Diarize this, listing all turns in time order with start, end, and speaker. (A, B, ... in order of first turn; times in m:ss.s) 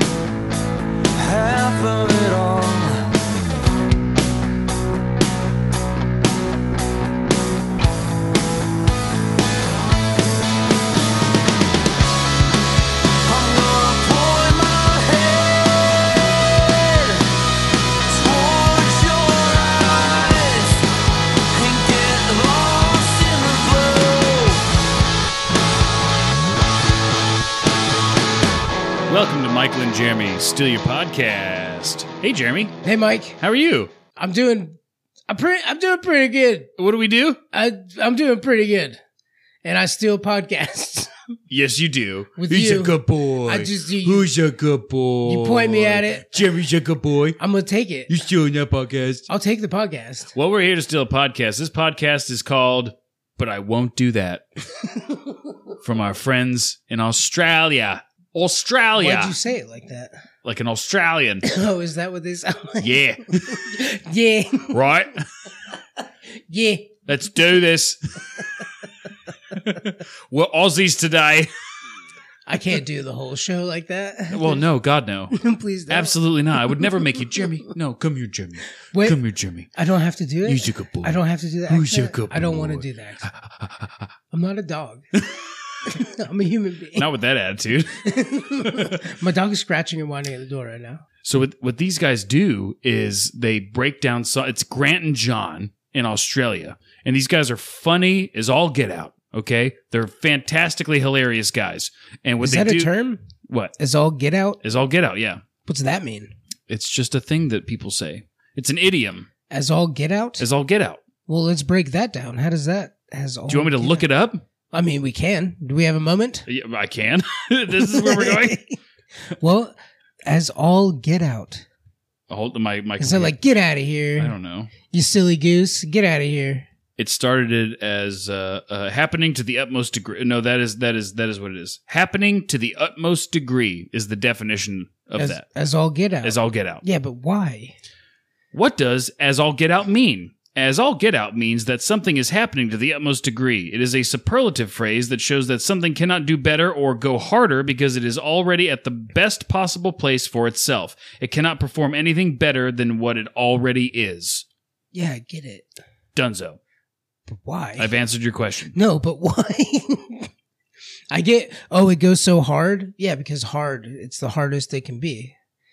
0:01.2-0:03.1 A
0:13.2-0:15.7 A
0:16.5-0:17.3 A
0:18.1-0:20.8 A
0:21.5-0:24.6 A
0:29.1-0:32.8 B
0:32.8-0:33.4 C
0:33.4-0:33.9 B
0:34.1-0:34.8 C
0:35.3-0:36.7 C
0:36.8-0:37.4 B
0:37.5-0:39.0 C
0:39.6-0:41.1 C
0:41.5-0:47.4 B
0:42.4-0:44.3 C
0:45.2-0:46.4 C
0:47.4-0:48.2 C
0:48.1-0:49.3 B
0:49.3-0:50.3 C
0:50.3-0:54.4 B
0:55.8-0:59.3 B
0:59.0-1:00.2 C
1:00.4-1:01.5 B
1:01.4-1:04.8 C
1:02.8-1:03.7 B
1:04.7-1:05.3 B
1:06.0-1:07.0 C
1:07.0-1:08.2 B
1:09.5-1:11.5 B
1:12.5-1:14.7 C
1:14.3-1:19.7 B
1:15.3-1:16.2 C
1:16.7-1:17.4 C
1:18.9-1:19.2 C
1:19.7-1:23.2 C
1:20.4-1:24.1 B
1:24.3-1:25.0 C
1:25.2-1:25.4 B
1:25.9-1:27.1 C
1:27.0-1:28.1 B
1:28.0-1:31.0 C
1:28.6-1:29.0 B
1:31.2-1:42.9 B
1:42.4-1:43.2 C
1:43.5-1:43.8 B
1:43.8-1:44.6 C
1:44.6-1:45.4 B
1:45.6-1:46.3 C
1:46.7-1:49.3 B
1:49.5-1:50.4 C
1:50.4-1:51.0 B
1:51.2-1:54.1 C
1:53.5-1:54.4 B
1:54.7-1:56.4 C
1:56.5-1:58.6 B
1:57.8-1:58.8 C
1:59.3-1:59.8 C
2:00.2-2:01.6 C
2:02.3-2:03.3 B
2:03.0-2:06.7 C
2:04.2-2:04.7 B
2:07.0-2:15.4 B
2:15.2-2:17.8 C
2:16.2-2:16.8 B
2:18.5-2:34.4 B
2:34.9-2:35.7 C
2:36.1-2:36.6 B
2:37.3-2:37.9 C
2:37.8-2:38.8 B
2:38.7-2:40.3 C
2:41.1-2:45.3 C